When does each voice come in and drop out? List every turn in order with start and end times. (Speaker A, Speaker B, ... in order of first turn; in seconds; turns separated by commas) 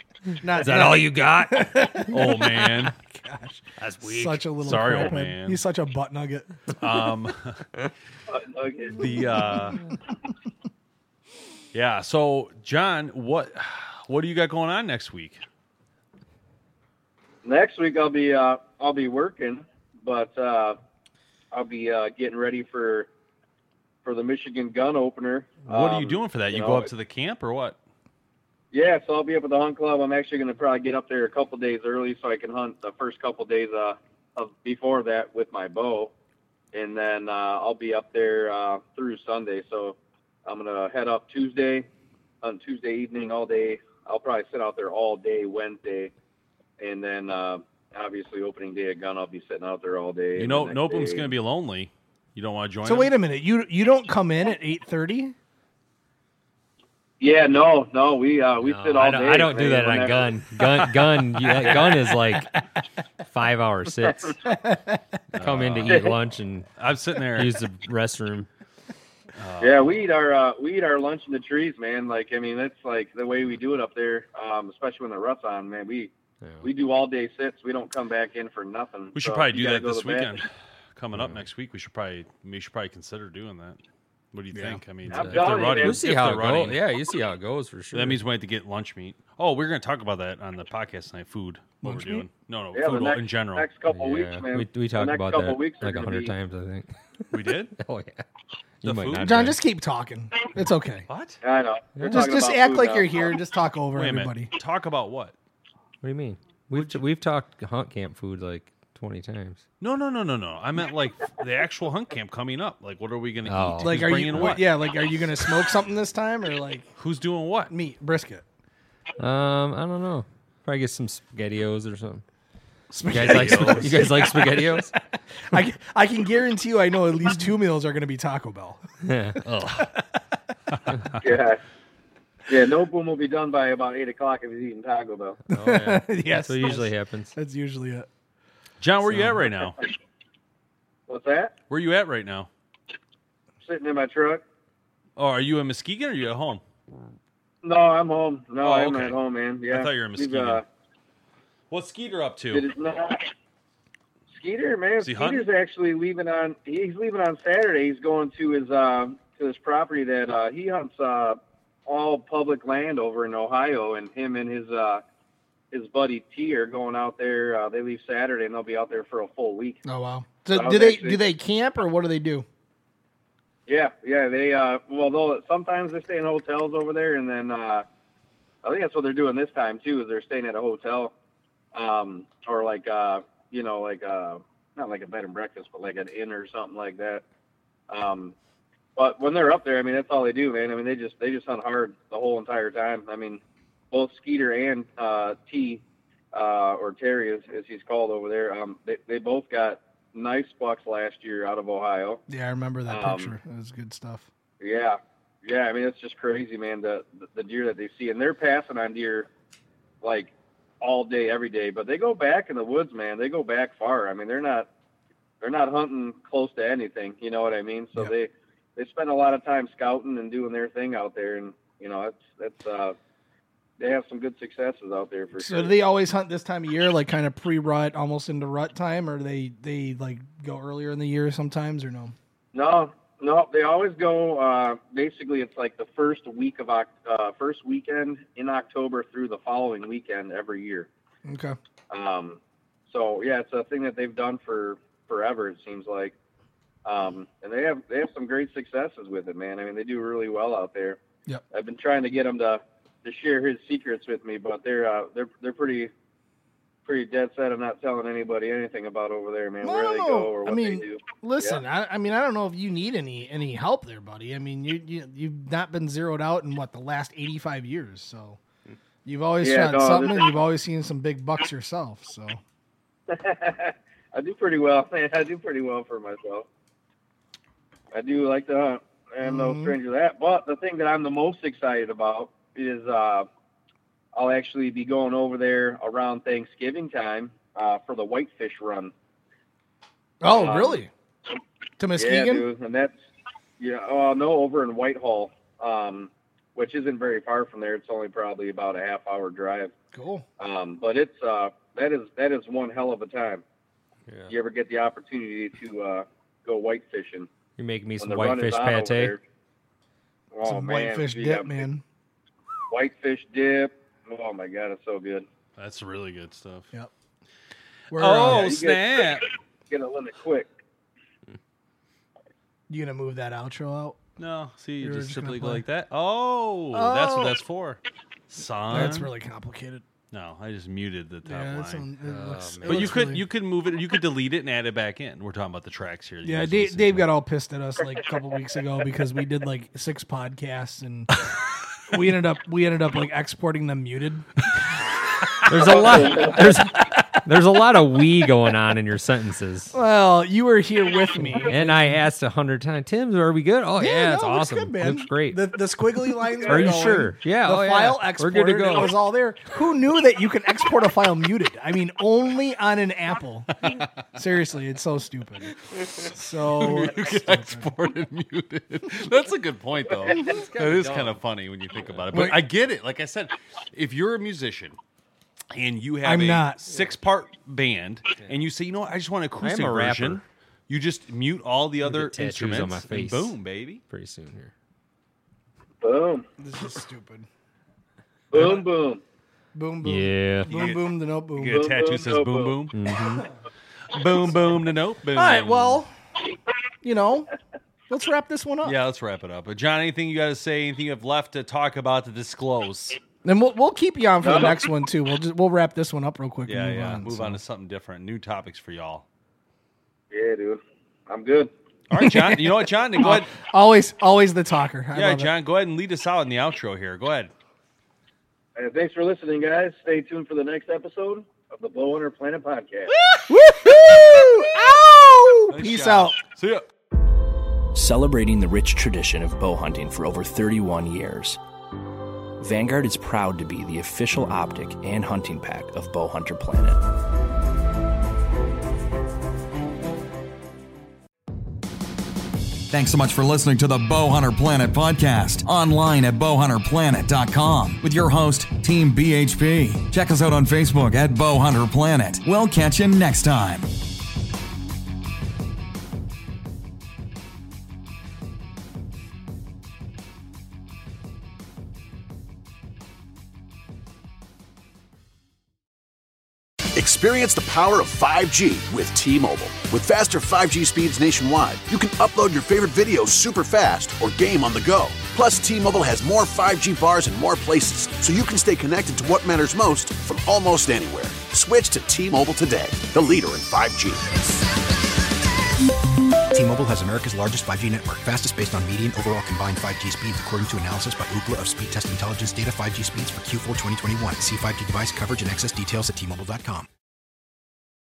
Speaker A: 0.4-6.7, Speaker B: 0.6-2.0, Speaker C: 2.1-3.0, Speaker B: 3.8-4.5, Speaker C: 4.6-5.6, Speaker C: 6.8-7.6, Speaker D: 8.3-9.0, Speaker C: 8.9-9.8, Speaker C: 11.7-15.4, Speaker D: 17.4-20.8, Speaker D: 21.5-23.1, Speaker D: 24.0-26.9, Speaker C: 25.7-27.8, Speaker D: 28.7-36.1, Speaker D: 36.7-41.9, Speaker D: 42.4-46.1, Speaker D: 46.8-51.3, Speaker C: 50.4-53.1, Speaker A: 52.9-55.4, Speaker D: 57.2-60.3, Speaker B: 58.6-62.5, Speaker B: 63.3-64.3, Speaker A: 64.5-65.0, Speaker C: 65.3-66.1, Speaker B: 65.3-66.7, Speaker C: 66.8-67.5, Speaker B: 67.3-68.5, Speaker C: 69.4-70.1, Speaker D: 69.6-76.1, Speaker D: 76.6-80.4, Speaker C: 79.1-83.8, Speaker B: 81.1-81.5, Speaker C: 84.3-86.8, Speaker B: 84.5-88.2, Speaker D: 85.1-86.0, Speaker C: 87.9-93.7, Speaker A: 91.8-92.3, Speaker D: 92.7-96.3, Speaker B: 93.9-97.2, Speaker C: 97.3-97.8, Speaker B: 97.8-98.2, Speaker B: 98.8-99.6, Speaker C: 98.8-99.6, Speaker A: 99.2-101.1, Speaker C: 101.1-101.4, Speaker D: 101.4-103.3, Speaker B: 102.0-102.2, Speaker A: 102.0-104.5, Speaker C: 104.0-105.3, Speaker B: 106.0-109.6, Speaker C: 106.7-107.0, Speaker C: 109.8-114.7, Speaker B: 113.5-114.1, Speaker A: 113.8-116.9, Speaker C: 117.0-117.7, Speaker A: 117.7-118.4, Speaker B: 119.2-122.2, Speaker C: 122.9-124.4, Speaker A: 123.0-124.9, Speaker B: 123.1-124.9, Speaker A: 125.5-128.8, Speaker B: 129.0-129.4, Speaker C: 129.5-129.9, Speaker D: 131.2-131.6, Speaker D: 132.5-135.4, Speaker B: 135.5-137.4, Speaker A: 135.5-138.1, Speaker C: 138.8-139.8, Speaker B: 139.1-139.4, Speaker D: 141.1-141.6, Speaker C: 141.7-142.5, Speaker D: 143.6-144.4, Speaker C: 145.2-146.6, Speaker D: 147.6-150.7, Speaker C: 148.6-149.2, Speaker C: 149.7-150.6, Speaker C: 151.7-152.7, Speaker D: 152.5-153.3, Speaker D: 154.3-165.0, Speaker C: 155.0-155.5, Speaker D: 165.7-169.8, Speaker A: 169.8-172.5, Speaker D: 170.5-171.2, Speaker D: 173.7-177.9, Speaker D: 178.6-181.1, Speaker D: 181.7-187.2, Speaker D: 187.9-188.3, Speaker D: 189.0-193.4, Speaker D: 193.9-195.8, Speaker D: 196.3-202.2, Speaker A: 202.3-204.3, Speaker D: 202.9-203.4, Speaker D: 204.6-209.3, Speaker D: 210.0-214.7, Speaker D: 215.4-223.0, Speaker D: 223.8-225.7, Speaker A: 225.4-232.2, Speaker D: 232.5-240.9, Speaker A: 241.2-241.6, Speaker D: 241.9-246.2, Speaker D: 246.8-251.0, Speaker D: 251.5-255.9, Speaker D: 256.9-261.6, Speaker A: 259.6-268.4, Speaker A: 269.1-272.4, Speaker D: 269.4-270.3, Speaker D: 273.1-276.5, Speaker D: 277.9-283.3, Speaker A: 279.2-279.8, Speaker D: 284.1-288.9, Speaker A: 290.2-290.9, Speaker D: 290.3-290.8, Speaker A: 291.8-292.5, Speaker D: 292.0-292.9, Speaker D: 293.6-299.7, Speaker A: 299.9-300.3, Speaker D: 300.4-303.4, Speaker B: 304.1-304.3, Speaker D: 304.3-307.3, Speaker B: 307.6-309.2, Speaker D: 308.0-309.2, Speaker D: 310.3-311.6, Speaker A: 310.4-311.8, Speaker D: 312.7-315.3, Speaker C: 315.6-316.7, Speaker A: 317.9-318.5, Speaker C: 317.9-319.3, Speaker D: 318.3-320.5, Speaker A: 322.7-324.0, Speaker C: 324.2-329.1, Speaker A: 324.8-325.6, Speaker A: 326.7-327.4, Speaker A: 328.7-329.9, Speaker C: 330.1-331.9, Speaker A: 331.2-333.2, Speaker B: 332.0-333.2, Speaker C: 332.7-337.1, Speaker A: 336.2-341.1, Speaker A: 341.9-344.3, Speaker B: 345.5-349.8, Speaker D: 345.6-346.3, Speaker A: 349.7-352.0, Speaker B: 351.3-355.4, Speaker A: 353.8-363.6, Speaker B: 356.5-359.0, Speaker C: 356.5-357.0, Speaker C: 363.6-363.9, Speaker A: 364.1-367.7, Speaker C: 365.8-374.8, Speaker B: 370.2-371.2, Speaker B: 371.8-372.1, Speaker A: 372.1-372.4, Speaker C: 375.5-383.8, Speaker A: 376.0-376.6, Speaker B: 379.4-380.2, Speaker B: 381.8-383.4, Speaker B: 383.9-384.5, Speaker D: 385.8-386.3, Speaker A: 386.4-387.3, Speaker D: 388.3-389.0, Speaker C: 388.3-388.6, Speaker A: 389.6-391.6, Speaker B: 389.8-390.5, Speaker C: 390.5-390.9, Speaker C: 391.4-392.8, Speaker D: 391.4-392.6, Speaker B: 392.7-393.3, Speaker C: 393.9-395.8, Speaker A: 395.1-395.9, Speaker A: 396.8-397.3, Speaker A: 397.9-398.8, Speaker C: 398.6-403.0, Speaker A: 403.2-407.4, Speaker D: 404.2-404.6, Speaker C: 406.5-409.1, Speaker D: 410.1-411.5, Speaker C: 411.9-413.3, Speaker A: 411.9-415.3, Speaker C: 414.9-417.3, Speaker D: 418.6-422.9, Speaker C: 423.0-423.2, Speaker A: 423.3-426.2, Speaker C: 425.5-426.7, Speaker E: 427.7-431.4, Speaker E: 432.4-436.8, Speaker F: 442.7-453.7, Speaker G: 466.8-484.4, Speaker H: 486.3-496.7